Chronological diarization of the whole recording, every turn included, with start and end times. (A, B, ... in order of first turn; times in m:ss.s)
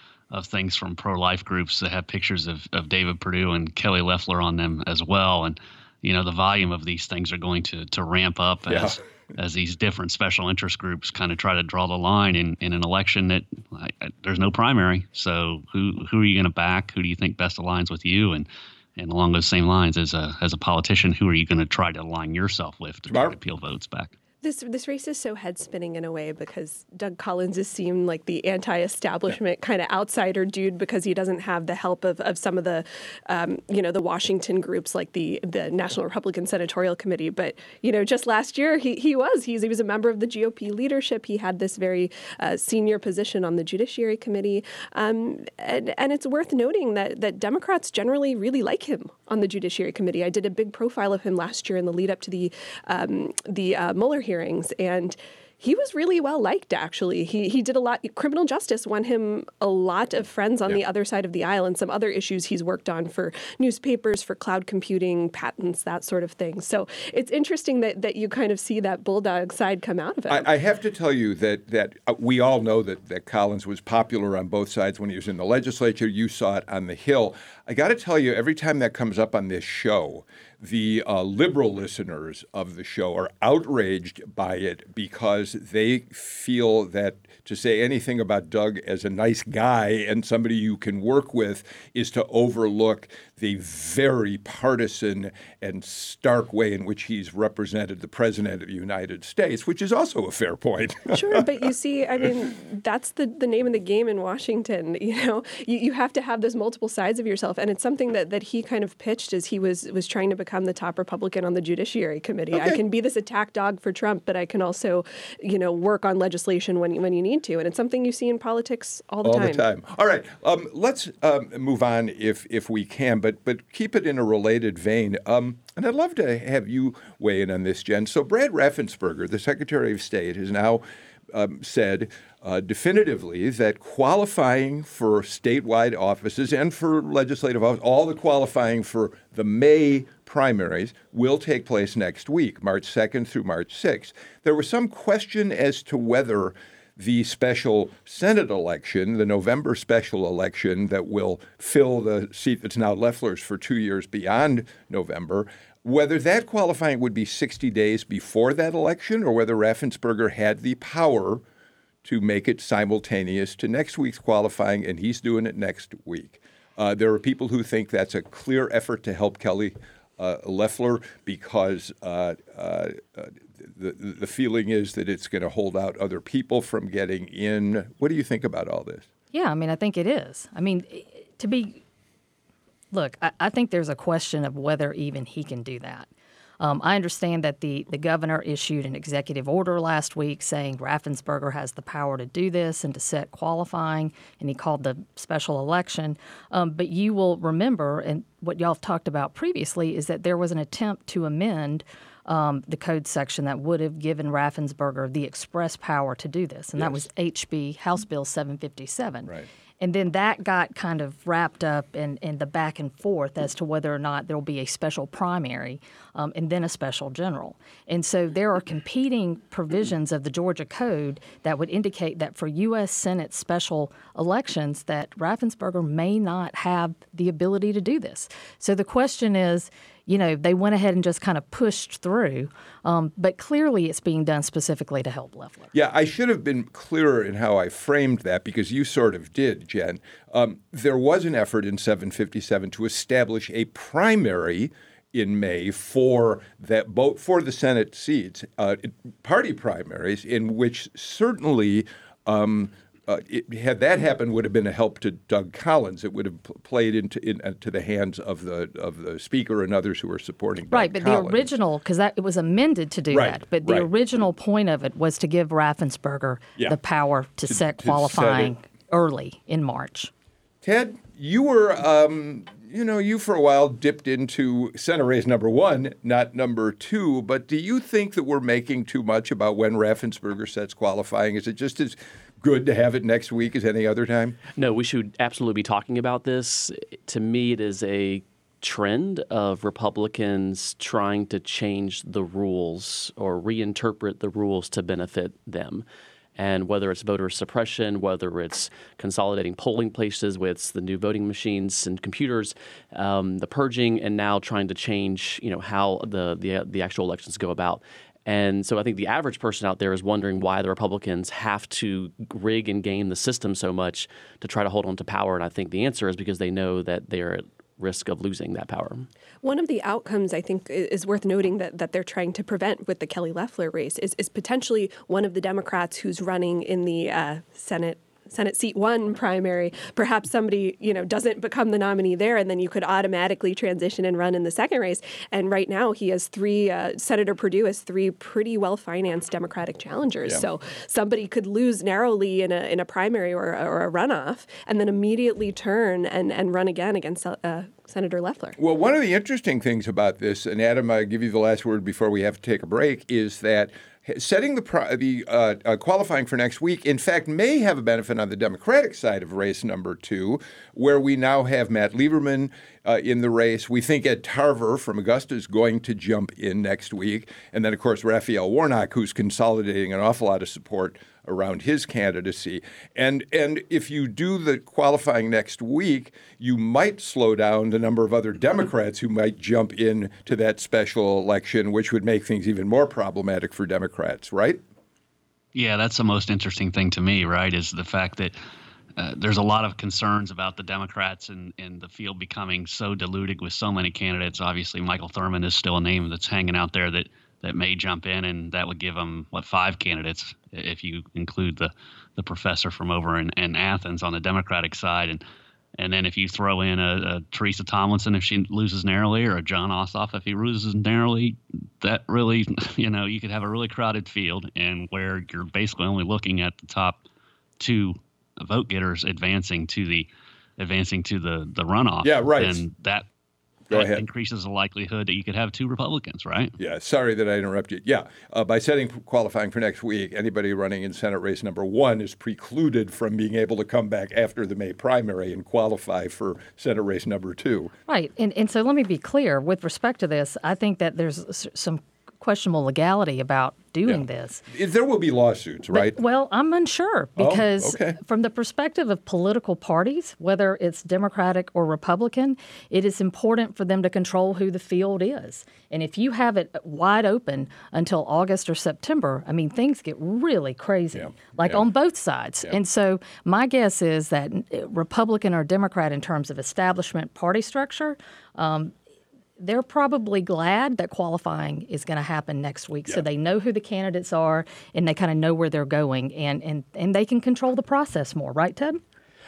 0:00.3-0:24.1 A
0:08.7-0:09.0 B
0:23.1-0:23.4 B
0:24.4-1:10.5 C
1:10.3-1:41.5 B
1:41.1-1:59.7 C
1:52.5-1:52.8 B
1:59.2-2:41.4 B
2:42.0-2:59.1 B
2:59.3-3:01.8 D
3:02.9-3:06.1 D
3:06.6-3:55.7 D
3:26.8-3:27.0 B
3:55.7-4:21.5 B
4:20.7-4:30.1 D
4:23.1-4:23.9 B
4:27.5-4:28.5 B
4:30.6-4:44.4 B
4:44.6-4:55.8 E
4:56.4-5:19.1 E
5:19.4-5:48.6 C
5:48.6-6:24.6 B
6:25.5-6:28.4 A
6:29.0-6:45.2 A
6:45.8-6:57.0 A
6:57.6-7:03.1 A
7:02.0-7:02.6 B
7:03.7-7:04.0 B
7:03.7-7:06.5 A
7:06.6-7:17.7 B
7:17.9-7:24.4 D
7:23.8-7:26.0 B
7:25.7-7:48.7 D
7:27.2-7:28.0 B
7:40.9-7:41.6 B
7:49.4-7:58.8 D